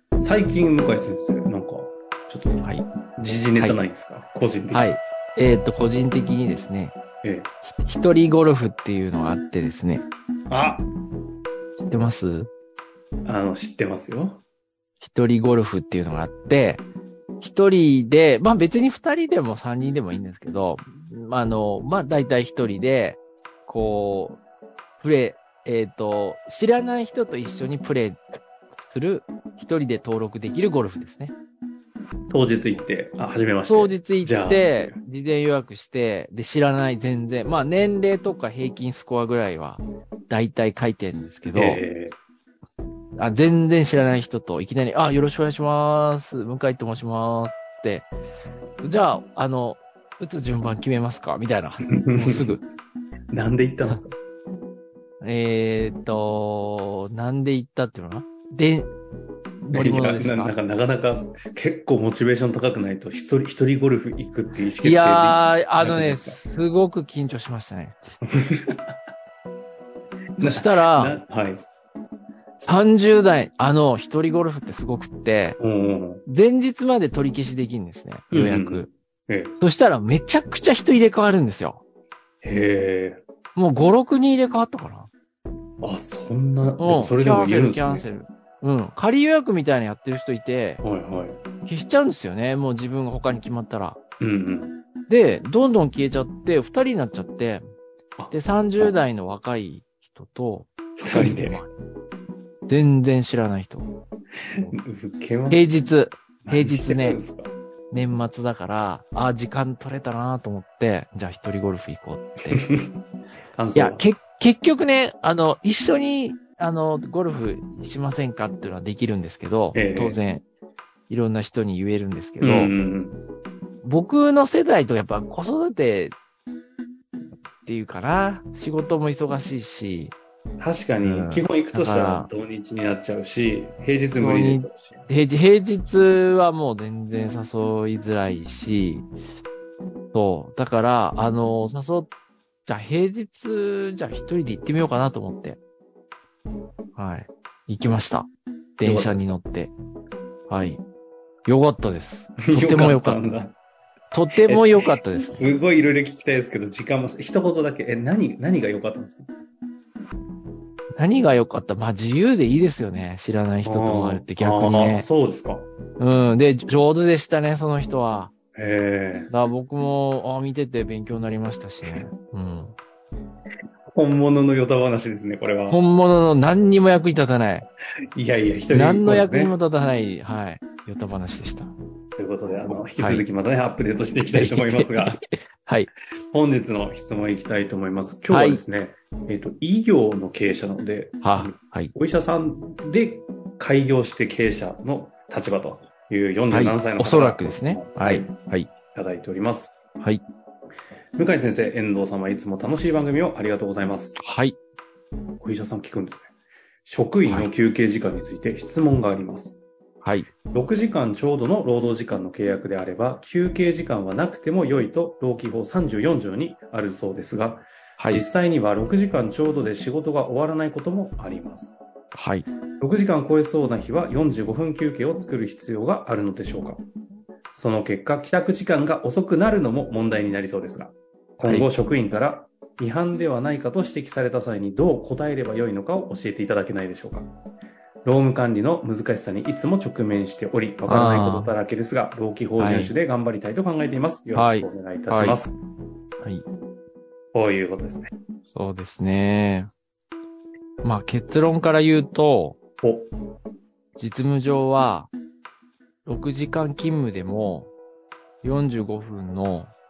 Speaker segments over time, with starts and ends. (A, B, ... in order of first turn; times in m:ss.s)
0:00.2-0:04.9 A
0:03.5-0:03.8 B
0:04.7-0:07.0 B
0:07.2-0:07.5 A
0:07.8-0:10.1 B
0:10.5-0:10.9 A
0:11.8-0:12.5 B
0:13.2-0:14.4 A
0:15.0-0:16.8 B
0:17.4-0:24.4 B
0:25.0-0:28.2 B
0:28.8-0:31.3 B
0:32.3-0:34.9 A
0:33.7-0:41.8 B
0:41.5-0:42.2 A
0:43.2-0:48.1 B
0:48.8-0:52.6 B
0:51.8-0:52.6 A
0:53.3-0:54.1 A
0:55.2-0:58.9 B
0:59.6-1:00.5 B
0:59.7-1:06.4 A
1:04.8-1:08.0 B
1:08.3-1:08.9 A
1:10.4-1:11.7 A
1:10.4-1:11.2 B
1:12.6-1:15.6 B
1:15.6-1:16.2 A
1:16.2-1:18.9 B
1:18.3-1:19.6 A
1:19.6-1:21.8 B
1:22.4-1:23.2 A
1:23.5-1:25.1 B
1:25.8-1:28.1 A
1:26.8-1:30.8 B
1:30.8-1:31.4 A
1:31.6-1:34.0 B
1:34.2-1:34.8 A
1:35.1-1:37.6 B
1:38.2-1:38.9 A
1:38.3-1:41.7 B
1:41.0-1:41.6 A
1:42.7-1:43.9 B
1:44.6-1:45.8 A
1:45.5-1:47.2 B
1:46.4-1:47.5 A
1:47.9-1:52.6 B
1:52.5-1:52.9 A
1:53.5-1:54.0 A
1:53.7-2:00.4 B
1:59.7-2:00.2 A
2:01.1-2:02.7 B
2:02.4-2:03.2 A
2:03.8-2:06.1 B
2:07.6-2:10.2 B
2:10.6-2:15.1 A
2:11.0-2:12.3 B
2:14.2-2:19.1 B
2:20.1-2:22.1 B
2:22.6-2:25.6 B
2:27.0-2:29.7 B
2:28.8-2:29.4 A
2:30.5-2:30.8 B
2:31.4-2:33.4 B
2:32.4-2:33.5 A
2:34.1-2:35.4 B
2:34.4-2:39.3 A
2:41.0-2:45.1 B
2:43.6-2:45.7 A
2:46.0-2:48.3 B
2:48.5-2:49.3 A
2:49.3-2:52.8 B
2:53.9-2:55.8 A
2:55.7-2:57.7 B
2:58.1-2:59.6 A
2:58.7-3:01.7 B
3:02.2-3:05.2 A
3:02.5-3:03.2 B
3:04.3-3:05.9 B
3:06.3-3:18.3 A
3:08.3-3:08.6 B
3:11.2-3:11.9 B
3:16.5-3:18.7 B
3:18.9-3:19.8 A
3:21.2-3:24.2 A
3:24.2-3:24.6 B
3:25.4-3:26.3 A
3:26.8-3:29.6 A
3:30.0-3:30.3 B
3:30.5-3:41.8 A
3:38.0-3:38.2 B
3:42.1-3:42.4 B
3:42.8-3:46.8 A
3:47.5-3:57.3 A
3:58.0-4:05.6 A
4:00.9-4:01.5 B
4:02.6-4:02.9 B
4:04.3-4:05.4 B
4:06.2-4:06.4 B
4:07.3-4:08.1 A
4:08.5-4:09.7 B
4:10.8-4:12.6 B
4:12.8-4:13.1 A
4:14.0-4:15.1 B
4:16.0-4:17.7 B
4:18.4-4:19.7 B